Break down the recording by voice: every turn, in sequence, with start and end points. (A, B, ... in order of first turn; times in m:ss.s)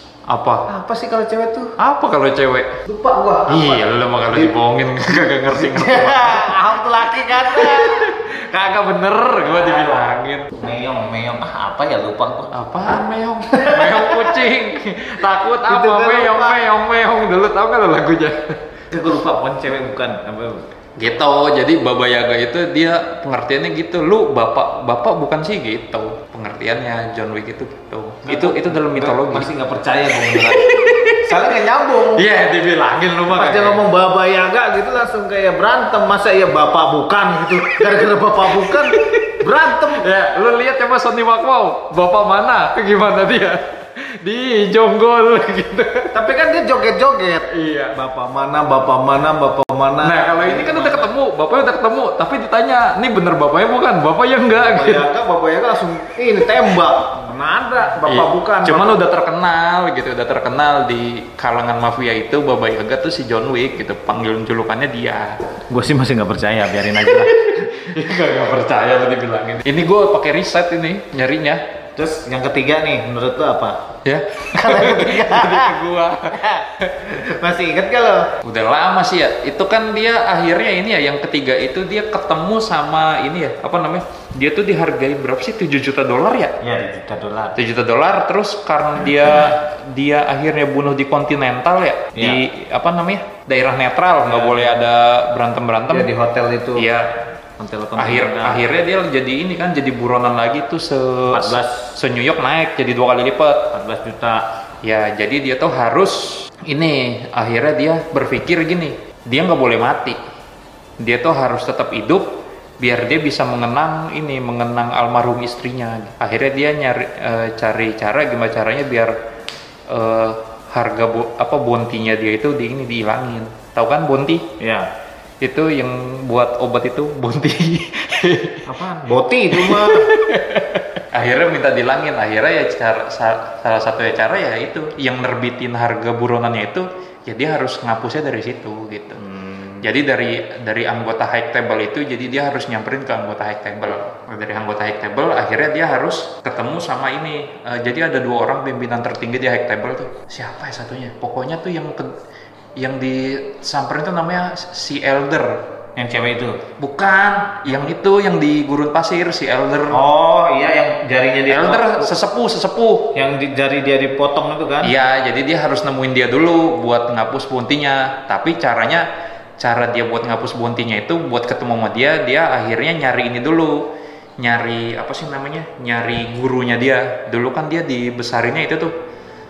0:00.3-0:00.7 A
0:00.7-0:01.8 B
0:01.8-0:02.8 A
0:02.8-0:04.6 B
0:03.5-0:10.5 A
0:05.5-0:08.2 B
0:09.4-0:09.8 B
0:10.5-0:12.5 B
0:12.5-0:18.6 A
0:13.5-0:14.4 B
0:15.6-0:16.7 B
0:18.9-0:20.7 B
0:21.0-0:29.5 A
0:28.2-0:32.2 B
0:30.1-0:31.5 A
0:32.2-0:33.8 A
0:33.3-0:40.1 B
0:37.6-0:46.3 A
0:46.1-0:51.1 B
0:47.5-0:48.0 A
0:50.0-0:55.1 A
0:54.5-0:59.0 B
0:58.0-1:05.4 A
1:05.7-1:07.8 B
1:06.9-1:11.6 A
1:12.0-1:13.9 B
1:14.0-1:17.1 A
1:14.5-1:15.8 B
1:16.3-1:18.4 B
1:18.4-1:26.6 A
1:26.6-1:27.6 B
1:27.6-1:36.1 A
1:32.2-1:32.4 B
1:34.2-1:34.7 B
1:35.9-1:36.9 B
1:36.8-1:37.1 A
1:37.6-1:38.6 B
1:38.0-1:43.7 A
1:41.3-1:42.0 B
1:43.7-1:44.5 B
1:44.8-1:50.2 A
1:51.0-1:59.2 A
1:59.9-2:04.5 A
2:04.6-2:04.9 B
2:05.4-2:08.7 A
2:08.7-2:10.1 B
2:09.5-2:19.2 A
2:19.2-2:19.8 B
2:19.8-2:32.2 A
2:32.8-2:35.6 A
2:36.0-2:36.6 B
2:36.8-2:40.0 A
2:39.9-2:42.1 B
2:41.5-2:43.1 A
2:43.1-2:45.0 B
2:44.8-2:49.1 A
2:49.6-2:58.9 A